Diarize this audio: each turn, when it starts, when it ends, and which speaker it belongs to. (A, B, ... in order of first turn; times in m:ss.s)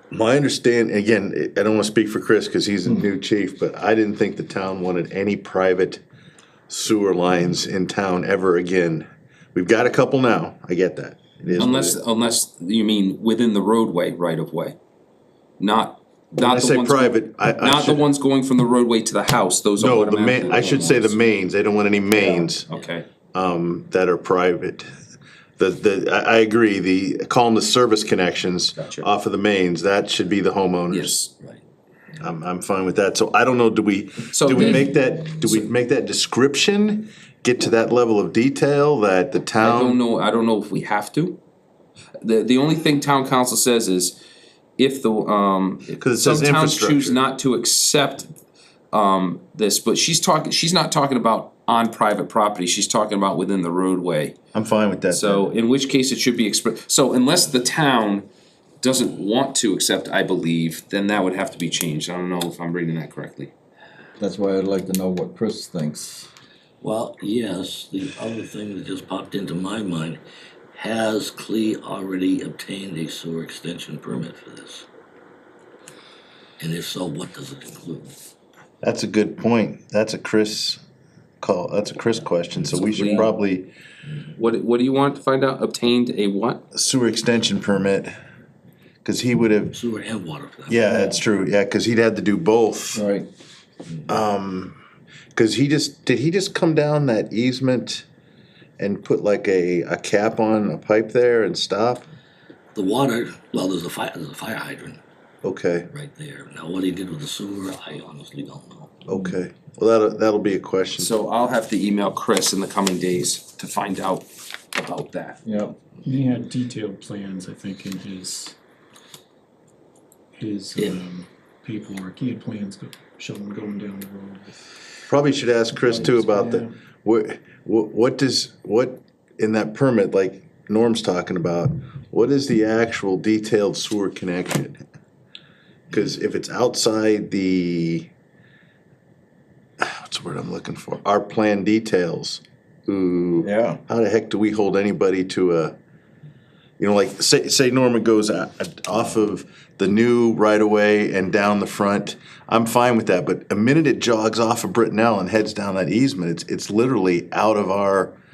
0:00.1-0:06.0 A
0:06.7-0:12.0 A
0:11.5-0:14.8 B
0:15.6-0:21.2 B
0:16.4-0:18.0 A
0:19.8-0:22.7 A
0:22.6-0:23.0 B
0:23.3-0:24.9 A
0:25.6-0:31.2 A
0:28.8-0:29.0 B
0:30.9-0:31.3 B
0:32.2-0:40.0 A
0:34.3-0:34.9 B
0:39.6-0:41.4 B
0:42.2-0:44.2 B
0:44.8-0:48.3 B
0:46.0-0:47.2 A
0:48.9-0:54.4 B
0:54.5-0:55.5 A
0:55.1-0:58.3 B
0:58.8-1:03.5 B
1:04.2-1:06.3 C
1:06.8-1:10.2 D
1:10.7-1:14.8 D
1:16.6-1:18.1 D
1:18.8-1:20.8 A
1:21.4-1:23.7 A
1:22.9-1:23.3 B
1:24.3-1:26.6 B
1:26.7-1:28.1 A
1:29.0-1:29.7 A
1:29.7-1:31.2 D
1:30.7-1:33.0 A
1:32.9-1:33.3 C
1:34.1-1:34.8 A
1:35.3-1:38.0 A
1:38.8-1:42.0 A
1:42.7-1:45.0 D
1:45.4-1:45.9 A
1:45.9-1:49.0 D
1:49.1-1:51.1 A
1:51.0-1:55.4 B
1:55.4-1:55.8 C
1:56.0-1:58.6 E
2:00.4-2:04.5 E
2:05.1-2:14.8 A
2:05.9-2:06.6 E
2:15.9-2:18.1 A
2:19.8-2:25.7 A
2:23.4-2:23.8 C
2:26.8-2:38.2 A